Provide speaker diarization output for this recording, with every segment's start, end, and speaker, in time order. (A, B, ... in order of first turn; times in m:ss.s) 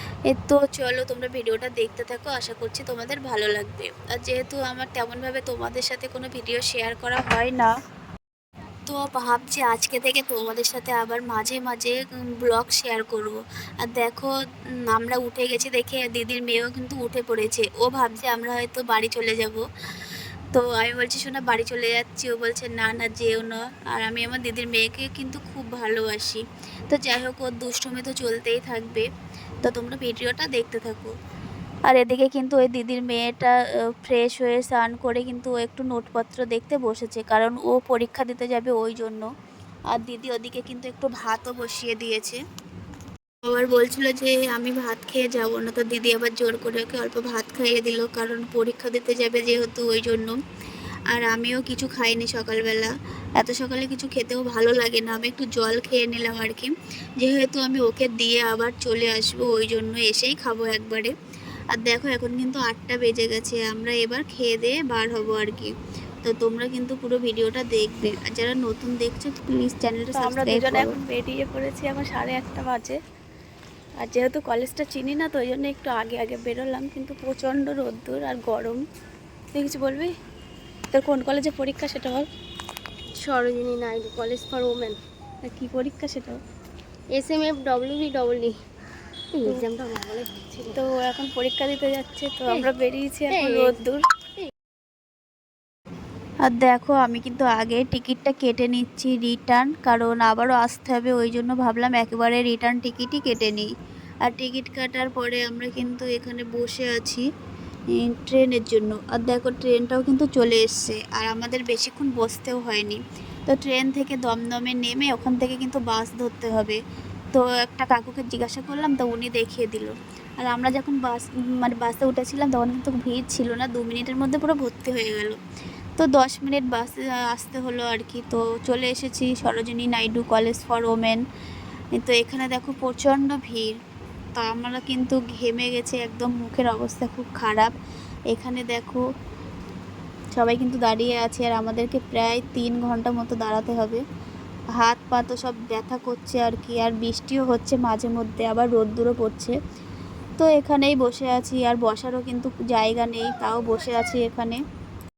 0:00.3-0:07.7 A
0:08.9-0:14.3 A
0:14.9-0:19.6 A
0:20.5-0:29.0 A
0:29.6-0:31.1 A
0:31.9-0:33.5 A
0:34.0-0:39.3 A
0:39.9-0:42.4 A
0:43.5-0:50.4 A
0:51.1-1:01.1 A
1:01.7-1:05.7 A
1:06.2-1:10.9 A
1:10.1-1:13.0 B
1:14.0-1:18.8 B
1:19.5-1:20.1 B
1:20.9-1:22.2 B
1:23.2-1:25.0 C
1:25.5-1:26.3 B
1:27.1-1:28.5 C
1:29.4-1:30.8 C
1:30.8-1:34.0 B
1:33.3-1:33.7 C
1:36.4-1:43.7 A
1:44.3-1:47.2 A
1:48.0-1:56.8 A
1:57.3-2:05.4 A
2:06.0-2:11.2 A
2:12.0-2:13.7 A
2:14.4-2:17.7 A
2:18.3-2:19.0 A
2:20.3-2:24.0 A
2:24.8-2:29.5 A
2:30.4-2:34.6 A